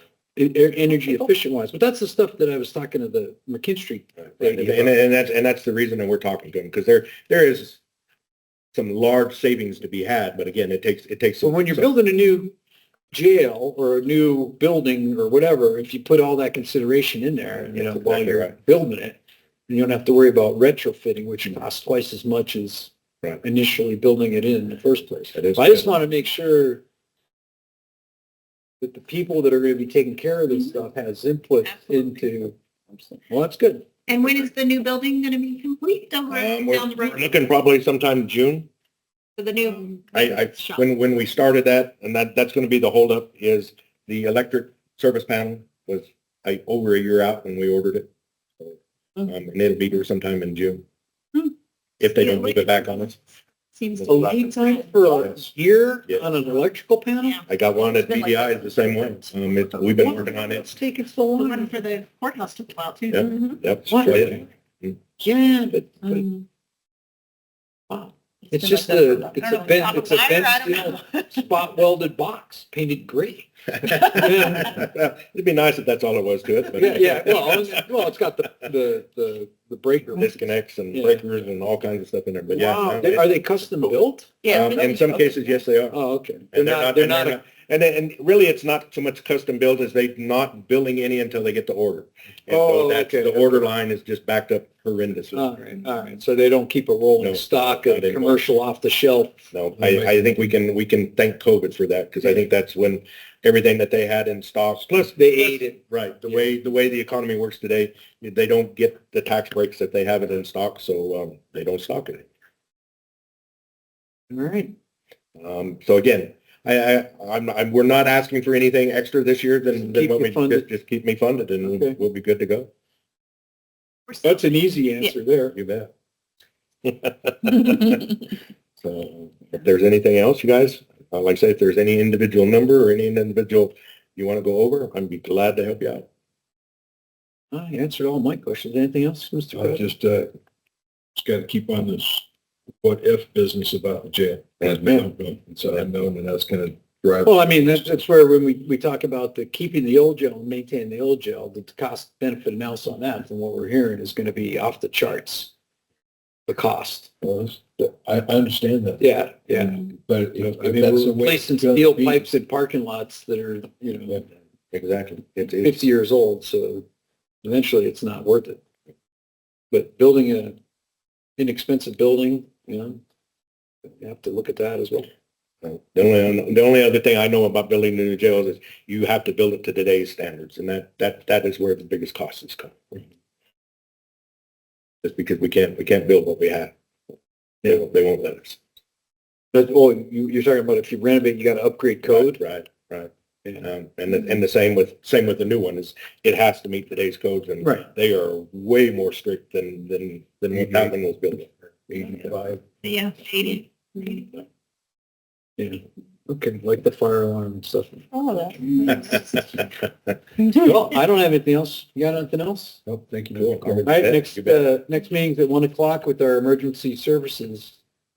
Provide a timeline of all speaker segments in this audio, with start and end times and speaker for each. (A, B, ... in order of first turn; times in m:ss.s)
0:00.4-0:05.0 A
0:04.4-0:07.8 B
0:08.7-0:11.9 B
0:11.4-0:12.5 A
0:13.1-0:26.8 A
0:17.4-0:18.6 B
0:25.3-0:25.9 B
0:28.8-0:32.6 A
0:33.3-0:33.8 A
0:34.1-0:37.2 C
0:36.3-0:38.7 B
0:39.4-0:40.8 C
0:40.1-0:50.8 B
0:52.0-0:53.2 B
0:52.2-0:53.1 C
0:53.7-0:55.2 C
0:54.0-0:54.3 B
0:54.0-0:57.4 A
0:57.5-1:00.7 B
0:57.8-1:00.3 C
1:00.0-1:01.7 A
1:01.4-1:03.6 C
1:03.1-1:05.0 B
1:03.9-1:04.4 A
1:05.2-1:06.3 A
1:06.0-1:06.4 C
1:07.9-1:14.8 A
1:08.5-1:11.3 C
1:13.8-1:17.8 B
1:16.8-1:20.4 A
1:20.2-1:23.3 B
1:20.9-1:21.2 A
1:22.5-1:24.3 A
1:24.4-1:25.4 C
1:24.5-1:26.0 B
1:25.9-1:27.4 A
1:26.5-1:35.5 B
1:32.5-1:33.7 A
1:35.3-1:39.3 A
1:37.2-1:38.4 B
1:39.5-1:52.3 B
1:45.2-1:46.5 A
1:54.3-1:54.7 A
1:55.4-2:02.7 B
1:59.7-2:00.7 A
2:01.6-2:02.0 A
2:04.1-2:05.1 C
2:04.2-2:05.6 A
2:05.6-2:05.9 B
2:06.8-2:08.2 B
2:08.8-2:16.1 B
2:17.5-2:19.9 A
2:19.5-2:20.3 D
2:21.2-2:22.2 D
2:22.8-2:27.3 D
2:24.7-2:25.1 A
2:27.2-2:35.5 A
2:36.5-2:37.1 A
2:37.2-2:42.2 D
2:39.0-2:44.2 A
2:44.7-2:45.8 B
2:45.5-2:46.9 A
2:47.4-2:48.6 A
2:49.7-2:50.6 A
2:51.4-2:53.0 A
2:54.0-2:55.1 A
2:55.6-3:03.0 B
3:05.0-3:06.7 B
3:07.6-3:08.6 B
3:09.5-3:12.4 A
3:12.0-3:13.1 B
3:13.6-3:21.5 B
3:17.6-3:17.9 A
3:20.6-3:20.9 A
3:21.9-3:22.6 A
3:22.8-3:24.4 C
3:25.6-3:28.1 A
3:28.1-3:29.4 C
3:28.6-3:29.2 A
3:30.4-3:37.8 A
3:32.9-3:33.8 D
3:33.3-3:34.7 B